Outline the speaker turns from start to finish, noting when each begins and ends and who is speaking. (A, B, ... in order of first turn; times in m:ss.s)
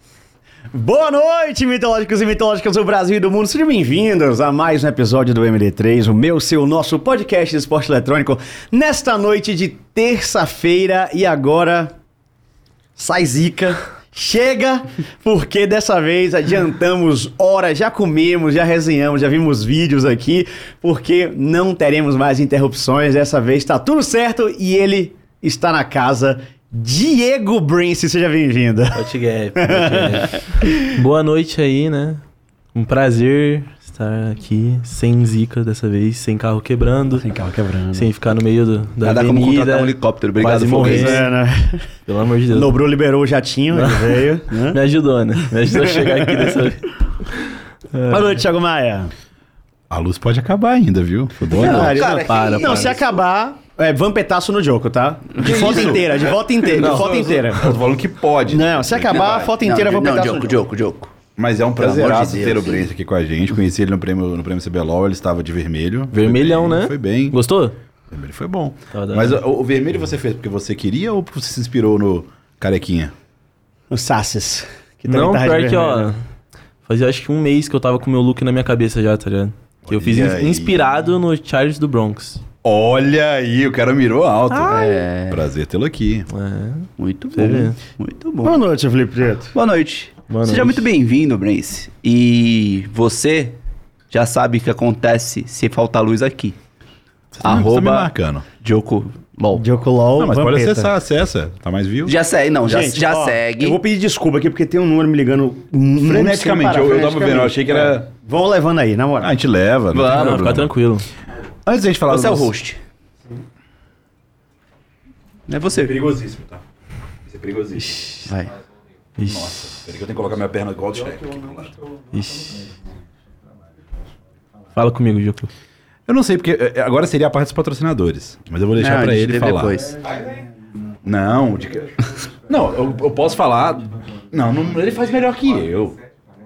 0:00.7-0:11.9 A
0:13.0-0:30.8 A
0:28.9-0:32.2 B
0:32.7-0:37.3 B
0:37.2-0:38.1 A
0:37.9-0:41.3 B
0:39.0-0:41.3 C
0:40.7-0:41.9 A
0:42.1-0:42.7 B
0:42.5-0:44.8 A
0:43.7-0:47.0 B
0:45.4-0:46.6 A
0:48.0-0:49.1 A
0:49.9-0:52.0 D
0:51.5-0:53.0 C
0:51.6-0:57.8 A
0:51.9-0:53.0 B
0:55.4-0:56.0 C
0:55.4-0:59.5 D
0:58.5-1:00.6 A
0:59.1-1:01.1 C
1:01.4-1:07.4 D
1:01.8-1:02.9 C
1:06.1-1:07.8 B
1:08.1-1:13.1 D
1:08.9-1:09.4 B
1:13.9-1:16.1 A
1:15.1-1:16.2 B
1:16.8-1:22.4 B
1:19.9-1:21.0 D
1:22.6-1:26.3 D
1:24.5-1:25.0 B
1:24.7-1:25.4 C
1:26.3-1:27.8 B
1:27.0-1:28.6 C
1:28.4-1:29.5 A
1:29.5-1:33.6 C
1:30.3-1:30.8 B
1:34.1-1:36.6 C
1:37.4-1:38.4 D
1:37.4-1:39.6 C
1:39.5-1:40.9 A
1:40.2-1:42.2 D
1:42.1-1:43.8 C
1:42.6-1:49.3 A
1:46.0-1:48.1 D
1:49.2-1:50.6 D
1:49.9-1:50.7 C
1:50.0-1:51.1 B
1:51.7-1:52.5 D
1:52.1-1:52.8 C
1:55.5-1:56.0 C
1:55.8-1:56.6 D
1:57.3-1:58.2 D
1:59.2-1:59.6 B
1:59.3-2:01.7 D
2:02.1-2:02.7 B
2:04.8-2:05.5 B
2:06.1-2:09.9 D
2:08.8-2:10.0 C
2:11.0-2:16.0 D